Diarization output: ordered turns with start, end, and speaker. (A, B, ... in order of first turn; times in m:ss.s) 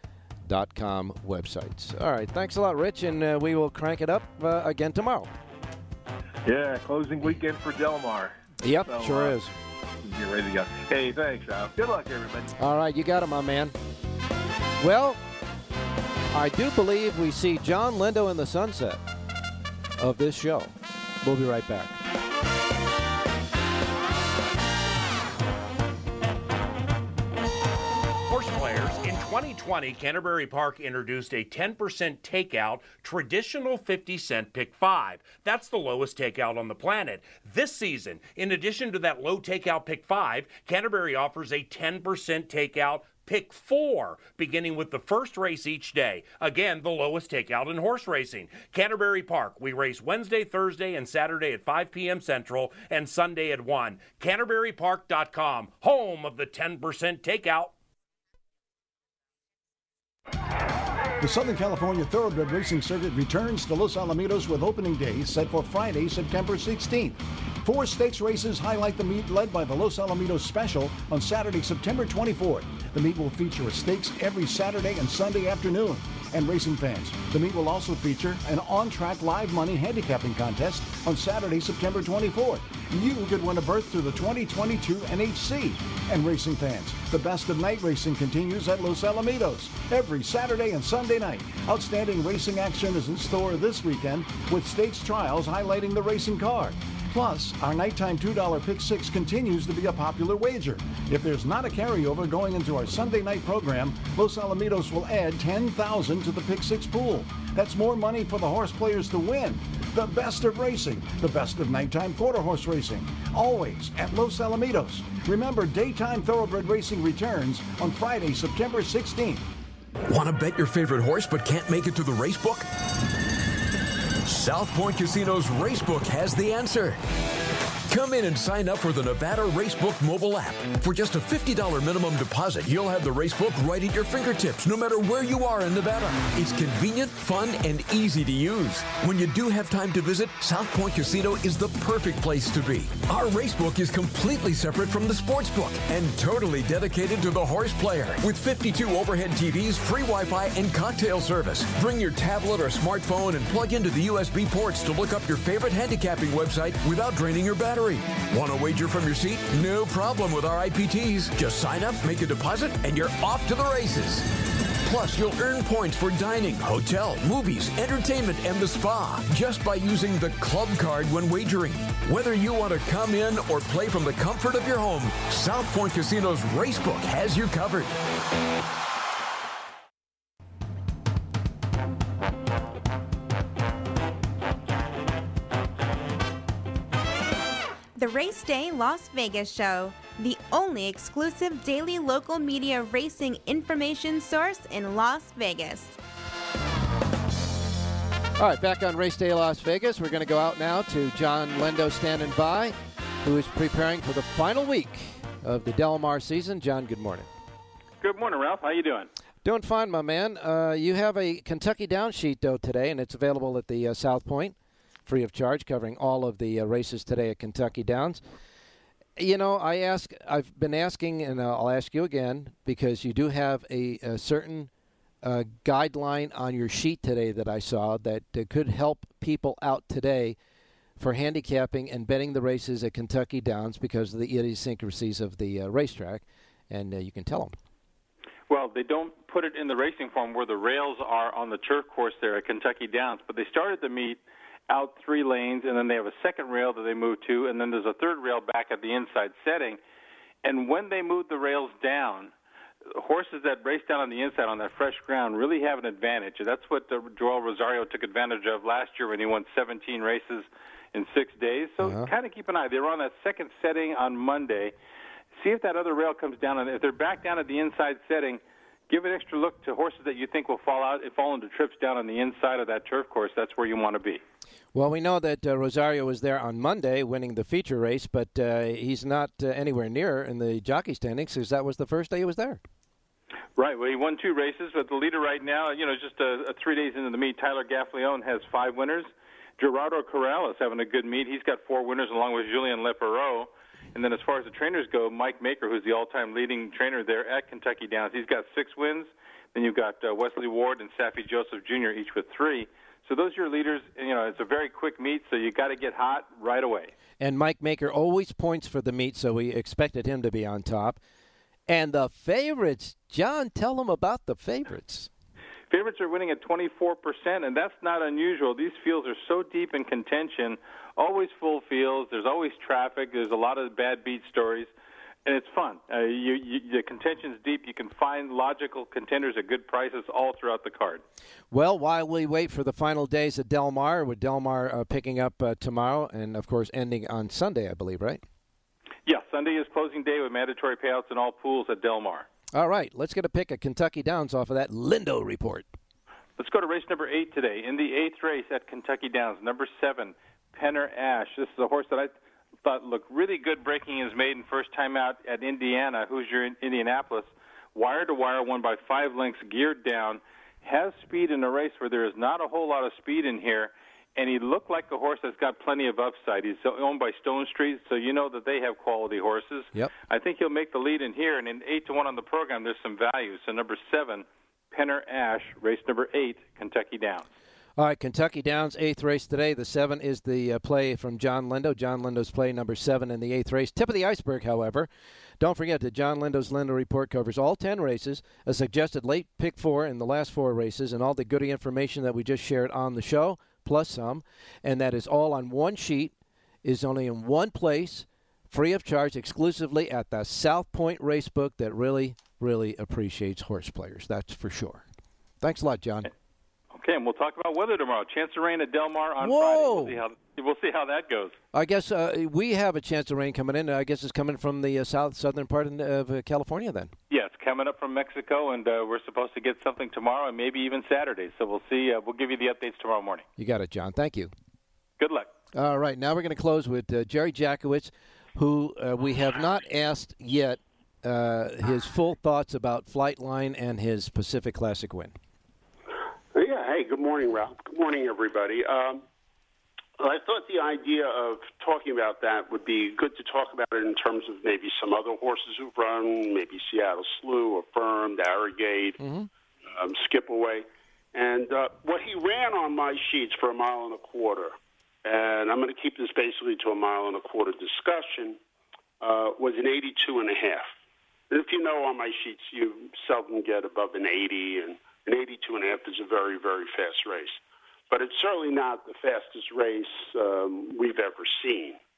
0:00.5-0:05.3 A
0:06.4-0:09.4 B
0:08.6-0:09.5 A
0:10.0-0:12.5 B
0:12.6-0:13.8 A
0:14.8-0:15.2 A
0:16.3-0:19.0 A
0:20.0-0:22.0 A
0:28.3-0:57.7 C
1:01.2-1:59.4 D
2:00.1-2:02.7 E
2:04.2-2:07.0 E
2:07.9-2:58.0 E
3:08.0-3:16.0 F
3:18.4-3:27.3 A
3:28.0-3:29.1 G
3:29.4-3:34.6 A
3:35.1-3:38.2 A
3:39.2-3:44.7 A
3:45.2-3:50.4 A
3:51.0-3:57.6 A
3:58.5-4:09.8 G
4:10.4-4:12.3 G
4:12.9-4:24.7 G
4:21.8-4:22.1 A
4:25.4-4:34.2 G
4:34.7-4:42.6 A
4:43.6-5:06.9 G
5:07.2-5:11.0 A
5:11.7-5:15.1 A
5:15.7-5:24.7 G
5:25.2-5:31.0 G
5:31.5-5:38.2 A
5:39.1-5:42.3 G
5:42.5-5:45.7 A
5:46.4-6:17.3 G
6:17.8-6:24.9 A
6:25.4-6:36.1 A
6:36.6-6:44.8 A
6:45.4-6:46.1 A
6:46.7-6:51.4 G
6:49.2-6:50.0 A
6:51.5-6:56.9 A
6:57.1-7:03.3 G
7:03.4-7:04.3 A
7:05.0-7:05.3 G
7:05.5-7:15.1 A
7:16.3-7:19.0 H
7:20.0-7:29.0 H
7:29.0-7:29.3 A
7:29.7-7:34.5 H
7:35.0-7:38.4 H
7:39.0-7:40.7 H
7:41.3-7:51.8 H